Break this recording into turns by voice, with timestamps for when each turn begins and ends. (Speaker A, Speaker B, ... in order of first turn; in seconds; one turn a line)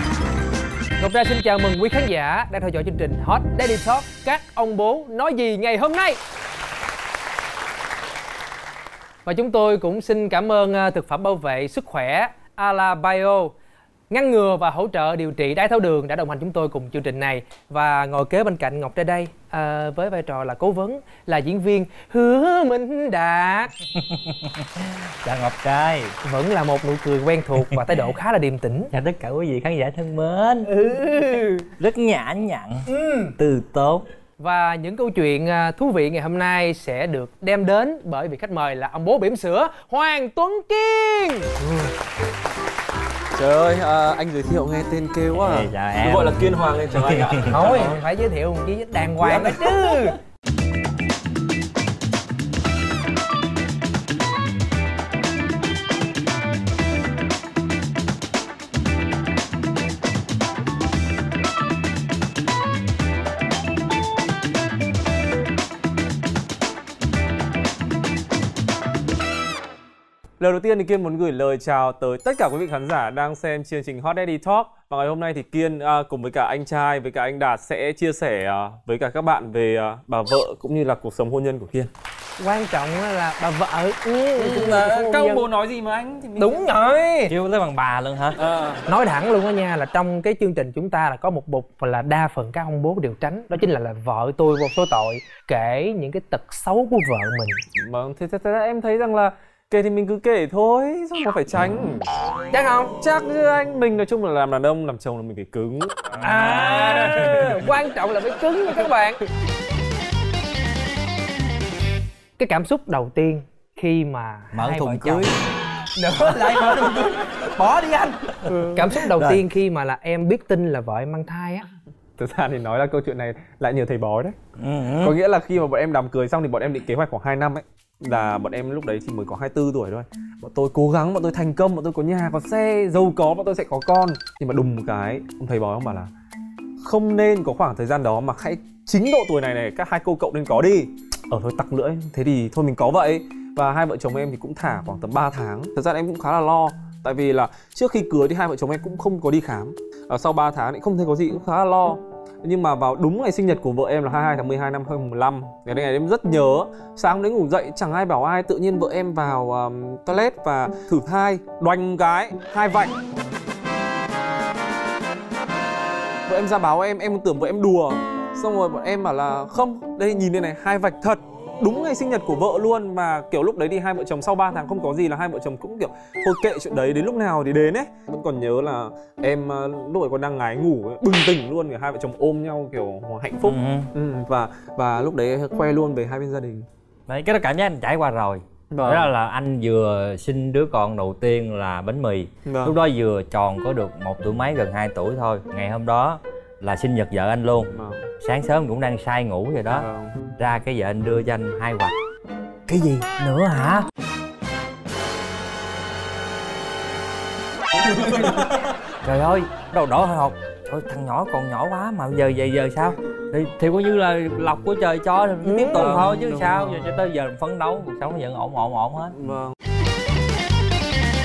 Speaker A: 1.0-6.2
Speaker A: 9.2-13.5
Speaker A: 14.1-23.7
Speaker B: 24.0-26.1
Speaker A: 26.2-28.9
Speaker B: 28.9-30.7
Speaker A: 30.7-31.7
Speaker B: 31.8-32.9
Speaker A: 32.9-33.3
Speaker B: 33.4-34.0
Speaker A: 34.4-41.5
Speaker C: 41.6-41.9
Speaker C: 43.3-47.9
Speaker B: 45.4-47.9
Speaker A: 47.5-50.2
Speaker C: 49.2-49.7
Speaker C: 70.4-81.9
Speaker A: 82.4-85.5
Speaker C: 84.4-86.5
Speaker A: 86.4-87.3
Speaker B: 87.3-88.4
Speaker C: 88.3-88.8
Speaker A: 88.9-97.6
Speaker C: 97.8-102.1
Speaker A: 102.5-102.9
Speaker C: 103.0-107.6
Speaker A: 106.2-109.2
Speaker A: 112.4-115.3
Speaker B: 114.5-115.3
Speaker A: 115.9-121.7
Speaker C: 118.5-119.4
Speaker C: 122.2-124.4
Speaker B: 124.6-125.1
Speaker C: 125.0-136.1
Speaker C: 136.8-163.0
Speaker C: 166.3-186.7
Speaker B: 183.4-183.9
Speaker B: 187.1-201.9
Speaker C: 188.7-189.1
Speaker C: 192.4-192.8
Speaker C: 197.7-198.1
Speaker C: 199.7-200.2
Speaker B: 202.7-203.9
Speaker C: 208.0-208.5
Speaker B: 208.1-208.4
Speaker B: 209.0-219.2
Speaker A: 215.4-216.1
Speaker C: 215.6-216.9
Speaker C: 219.2-219.5